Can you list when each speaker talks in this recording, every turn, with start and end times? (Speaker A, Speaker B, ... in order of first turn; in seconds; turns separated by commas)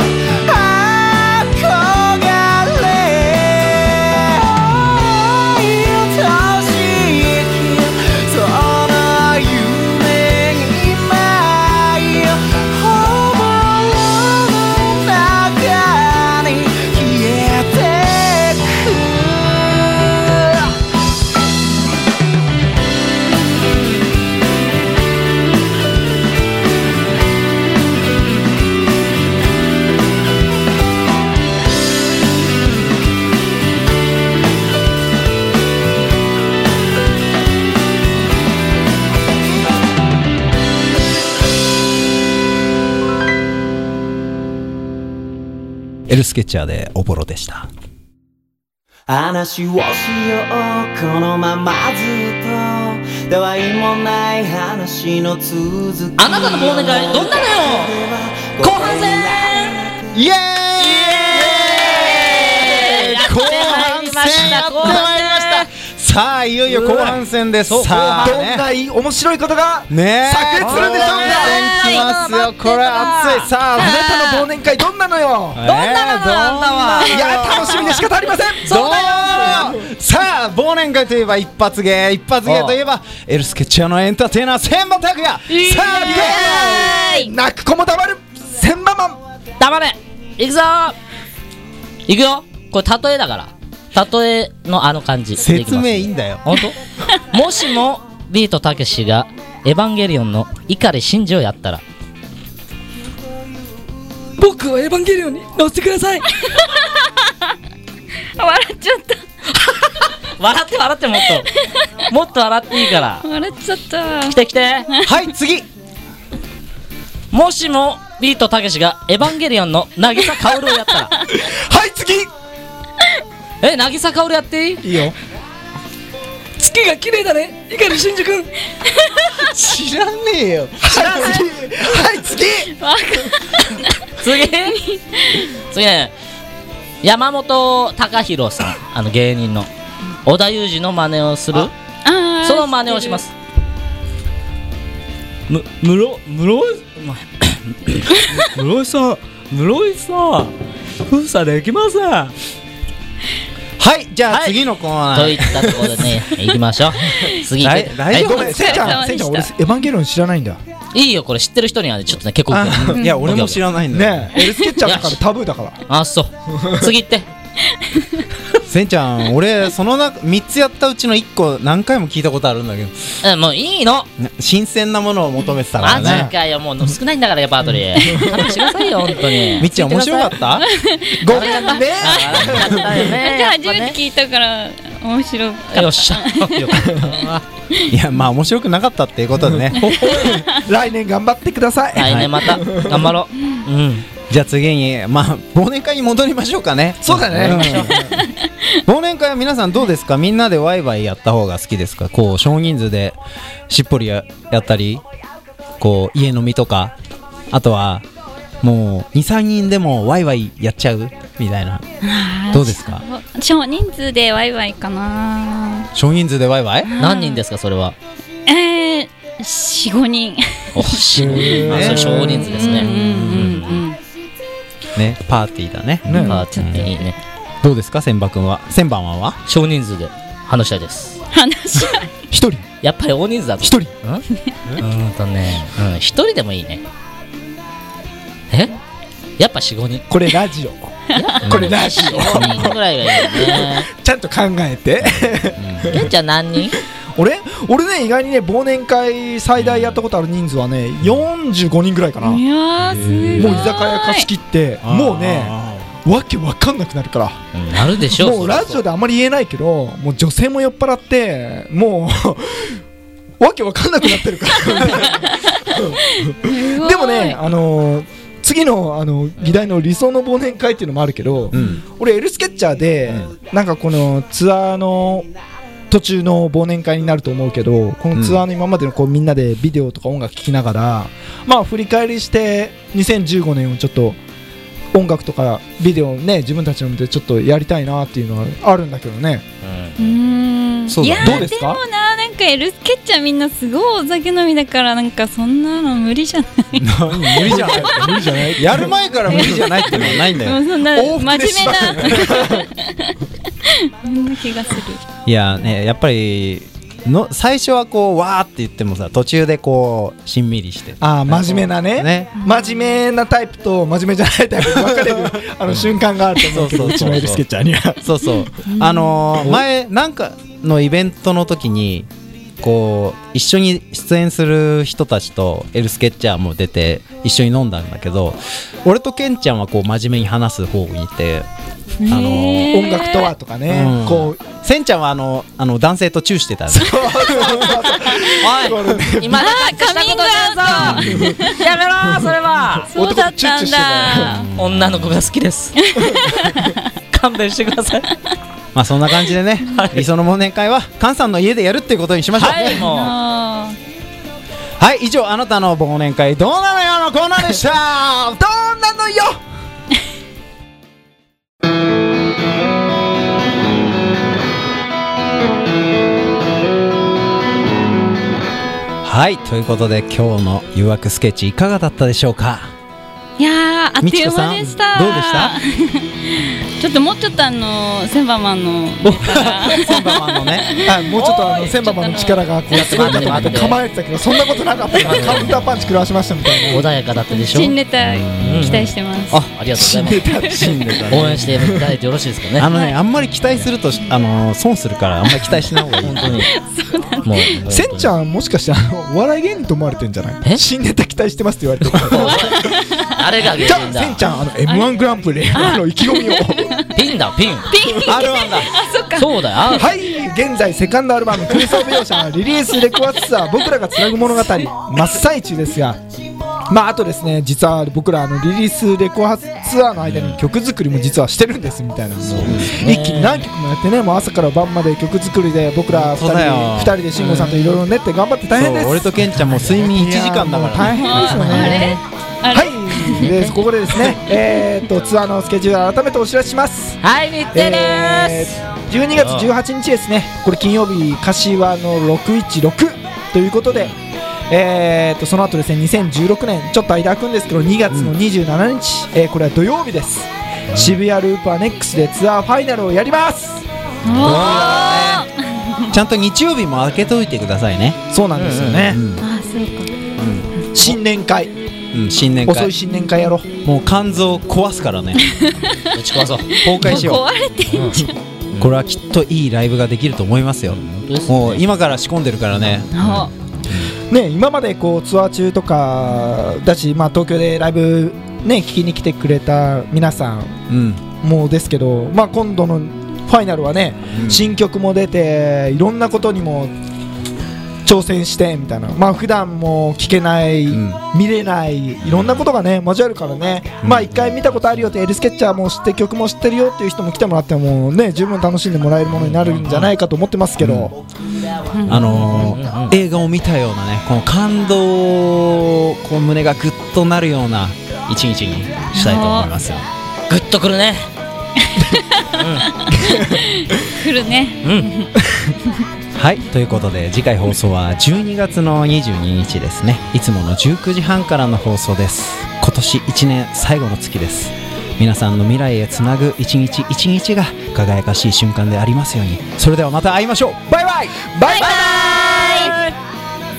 Speaker A: 0.3-20.8, Speaker B: 46.1-47.7, Speaker A: 49.1-60.0, Speaker C: 56.2-57.9, Speaker C: 58.6-59.7, Speaker B: 60.1-61.3, Speaker C: 60.8-65.7, Speaker A: 60.9-63.0, Speaker B: 62.6-68.7, Speaker A: 64.4-64.9, Speaker C: 66.7-68.4, Speaker D: 67.9-71.6, Speaker B: 69.9-74.0, Speaker C: 70.6-74.5, Speaker E: 71.7-72.0, Speaker D: 73.8-75.6, Speaker B: 75.5-77.9, Speaker C: 75.6-78.0, Speaker D: 77.1-79.8, Speaker B: 78.6-86.6, Speaker E: 78.8-79.2, Speaker C: 82.4-82.8, Speaker C: 85.5-87.3, Speaker D: 85.9-89.2, Speaker E: 86.8-87.2, Speaker C: 89.6-91.0, Speaker C: 92.1-96.8, Speaker B: 95.3-96.6, Speaker C: 97.3-101.8, Speaker C: 104.4-106.3, Speaker E: 106.4-107.3, Speaker E: 108.4-109.2, Speaker C: 109.6-111.5, Speaker C: 112.1-113.2, Speaker E: 113.2-114.4, Speaker C: 114.3-114.9, Speaker E: 114.9-115.2, Speaker B: 115.0-115.7, Speaker C: 117.3-121.1, Speaker D: 121.3-122.3, Speaker C: 123.6-124.8, Speaker D: 124.8-125.1, Speaker C: 126.6-128.5, Speaker E: 128.8-129.3, Speaker B: 129.5-130.1, Speaker A: 129.7-130.8, Speaker B: 130.8-131.2, Speaker D: 130.8-132.7, Speaker E: 132.7-134.1, Speaker C: 134.2-134.8, Speaker E: 134.7-135.5, Speaker C: 135.6-136.1, Speaker C: 137.0-139.7, Speaker C: 140.2-141.7, Speaker E: 142.0-143.2, Speaker C: 142.4-143.3, Speaker C: 145.5-150.5, Speaker C: 151.1-152.3, Speaker B: 153.8-156.2, Speaker C: 154.3-154.6, Speaker C: 155.1-157.9, Speaker E: 157.1-157.4, Speaker B: 157.6-159.0, Speaker D: 158.1-160.6, Speaker E: 158.3-159.5, Speaker C: 160.9-163.6, Speaker B: 162.5-164.3, Speaker D: 163.9-165.8, Speaker C: 164.8-165.2, Speaker C: 165.9-167.2, Speaker D: 166.5-166.9, Speaker E: 167.9-168.3, Speaker B: 168.6-173.1, Speaker C: 173.2-174.1, Speaker B: 174.2-176.3, Speaker D: 175.8-176.3, Speaker C: 175.8-180.4, Speaker D: 178.0-178.4, Speaker B: 179.6-180.7, Speaker E: 180.6-182.2, Speaker D: 181.2-183.1, Speaker C: 181.2-183.9, Speaker E: 183.0-187.0, Speaker C: 185.7-187.4, Speaker D: 186.8-187.1, Speaker B: 187.9-189.9, Speaker D: 189.5-193.1, Speaker E: 189.9-190.5, Speaker C: 190.0-190.4, Speaker C: 191.9-194.1, Speaker B: 192.0-192.4, Speaker B: 194.3-198.1, Speaker D: 197.0-198.2, Speaker E: 197.9-198.8, Speaker B: 198.8-203.2, Speaker B: 203.7-205.0, Speaker B: 205.8-206.9, Speaker B: 207.5-208.1, Speaker B: 208.6-211.8, Speaker E: 212.0-215.9, Speaker B: 212.5-213.0, Speaker B: 215.9-216.9, Speaker E: 216.8-217.4, Speaker C: 217.0-217.9, Speaker E: 218.5-224.0, Speaker C: 220.7-223.8, Speaker D: 221.1-222.4, Speaker B: 221.2-222.2, Speaker B: 222.8-223.6, Speaker B: 224.9-226.9, Speaker D: 226.1-226.4, Speaker E: 226.1-226.8, Speaker C: 226.3-227.2, Speaker B: 227.6-229.4, Speaker C: 229.5-231.2, Speaker E: 231.3-232.1, Speaker D: 231.7-232.6, Speaker C: 232.8-234.2, Speaker D: 233.6-233.9, Speaker C: 234.8-236.8, Speaker C: 238.5-238.8, Speaker C: 239.4-240.0, Speaker D: 240.1-246.1, Speaker C: 241.2-243.9, Speaker B: 241.5-241.8, Speaker B: 245.0-246.0, Speaker C: 245.9-246.8, Speaker D: 247.2-252.4, Speaker B: 249.6-250.0, Speaker E: 252.2-254.3, Speaker B: 252.8-253.8, Speaker D: 253.4-257.4, Speaker B: 254.8-255.9, Speaker C: 257.5-258.8, Speaker D: 258.1-262.8, Speaker D: 263.4-275.3, Speaker E: 264.9-267.4, Speaker B: 271.5-271.8, Speaker D: 275.9-284.2, Speaker B: 278.1-278.4, Speaker D: 284.9-289.4, Speaker C: 289.6-290.0, Speaker E: 290.0-296.9, Speaker B: 290.9-291.5, Speaker D: 291.2-291.8, Speaker B: 296.8-302.6, Speaker D: 297.1-300.1, Speaker E: 299.3-305.0, Speaker D: 302.1-302.6, Speaker B: 305.2-312.4, Speaker D: 311.0-318.1, Speaker B: 314.8-317.4, Speaker B: 318.0-322.1, Speaker E: 318.6-319.2, Speaker B: 322.6-331.5, Speaker E: 332.0-333.3, Speaker B: 332.1-332.9, Speaker D: 332.6-334.4, Speaker B: 333.7-337.7, Speaker D: 336.7-339.4, Speaker E: 337.4-338.3, Speaker C: 338.3-342.9, Speaker E: 339.3-341.6, Speaker B: 340.8-341.3, Speaker E: 342.9-344.5, Speaker D: 342.9-344.4, Speaker B: 344.3-345.2, Speaker C: 344.6-345.8, Speaker E: 345.8-346.8, Speaker C: 347.1-348.1, Speaker B: 348.7-352.8, Speaker C: 349.6-350.0, Speaker C: 352.3-353.1, Speaker E: 352.7-353.8, Speaker B: 354.8-358.4, Speaker D: 358.4-359.4, Speaker B: 369.0-372.7, Speaker E: 373.4-383.5, Speaker B: 374.0-375.6, Speaker B: 379.0-380.7, Speaker D: 380.8-386.8, Speaker C: 381.2-381.5, Speaker C: 382.7-383.8, Speaker C: 384.9-385.9, Speaker B: 385.2-385.9, Speaker C: 386.6-387.8, Speaker E: 387.3-389.4, Speaker B: 388.0-391.7, Speaker C: 388.4-388.8, Speaker C: 389.6-390.3, Speaker D: 389.8-391.9, Speaker C: 391.1-392.7, Speaker B: 392.6-396.5, Speaker C: 396.0-396.5, Speaker E: 396.4-397.6, Speaker C: 397.2-398.1, Speaker D: 397.7-402.7, Speaker C: 401.9-402.6, Speaker E: 402.1-403.4, Speaker C: 403.1-404.2, Speaker D: 403.6-406.8, Speaker E: 404.7-404.9, Speaker E: 405.5-407.0, Speaker C: 406.9-407.7, Speaker E: 407.7-409.9, Speaker B: 408.0-408.7, Speaker C: 409.1-409.9, Speaker D: 409.8-416.0, Speaker E: 411.6-412.0, Speaker E: 414.1-414.7, Speaker D: 416.7-429.2, Speaker B: 420.1-420.4, Speaker C: 422.2-423.4, Speaker B: 422.4-422.7, Speaker B: 425.9-427.0, Speaker C: 427.1-427.8, Speaker B: 428.5-431.2, Speaker D: 429.7-432.0, Speaker E: 430.8-433.3, Speaker C: 431.2-432.0, Speaker D: 432.5-437.0, Speaker C: 433.2-434.1, Speaker C: 437.0-438.6, Speaker D: 437.5-443.9, Speaker C: 439.1-439.5, Speaker D: 444.5-453.6, Speaker B: 447.9-448.1, Speaker E: 454.0-455.9, Speaker B: 454.1-455.3, Speaker B: 455.9-458.0, Speaker D: 458.1-459.0, Speaker C: 458.3-458.9, Speaker B: 458.9-459.2, Speaker E: 459.2-459.9, Speaker B: 460.2-461.0, Speaker D: 460.7-461.5, Speaker B: 461.9-462.7, Speaker D: 462.4-463.5, Speaker B: 463.6-465.2, Speaker E: 465.2-465.9, Speaker C: 465.9-467.0, Speaker E: 466.5-468.1, Speaker B: 466.6-467.2, Speaker C: 467.7-468.7, Speaker B: 468.6-473.8, Speaker C: 470.7-471.6, Speaker E: 472.9-473.3, Speaker D: 474.1-480.6, Speaker B: 480.7-481.0, Speaker D: 481.2-486.7, Speaker B: 484.1-484.6, Speaker D: 487.8-500.9, Speaker B: 490.7-491.0, Speaker B: 492.0-492.4, Speaker B: 493.8-494.3, Speaker C: 499.1-499.8, Speaker B: 500.6-500.9, Speaker E: 501.7-502.3, Speaker B: 501.8-509.8, Speaker C: 502.0-502.9, Speaker E: 508.9-509.5, Speaker C: 510.3-511.1, Speaker E: 511.6-515.1, Speaker C: 512.4-512.7, Speaker B: 516.1-531.3, Speaker D: 531.4-532.6, Speaker C: 531.5-532.9, Speaker A: 532.0-532.4